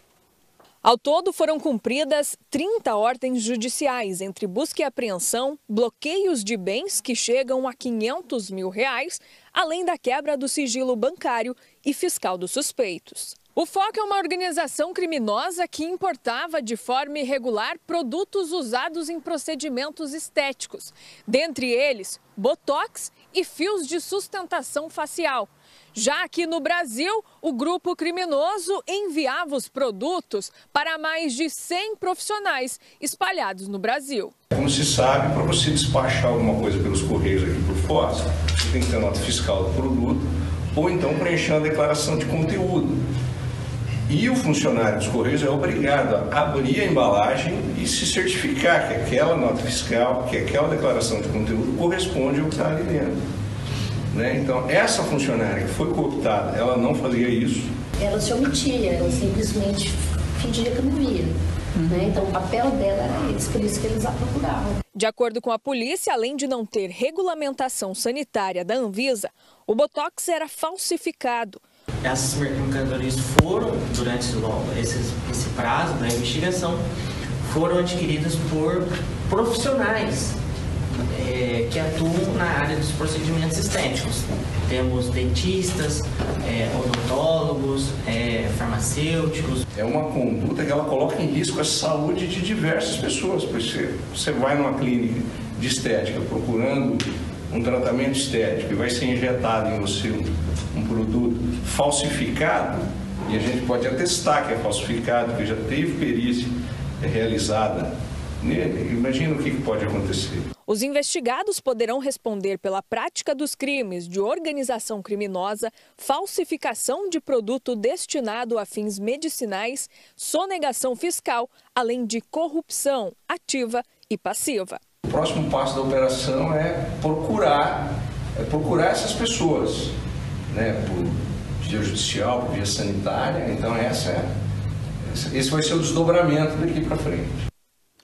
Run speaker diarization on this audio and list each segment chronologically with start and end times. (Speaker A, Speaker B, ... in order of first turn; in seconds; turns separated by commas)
Speaker A: 0.8-34.3, Speaker B: 34.5-43.0, Speaker B: 44.1-53.1, Speaker B: 54.1-57.7, Speaker C: 58.0-64.8, Speaker A: 64.9-71.6, Speaker D: 72.0-76.8, Speaker D: 77.4-80.4, Speaker D: 81.1-89.6, Speaker B: 89.7-110.5, Speaker A: 110.7-124.8, Speaker B: 125.0-129.9, Speaker B: 130.5-134.2, Speaker B: 135.1-137.4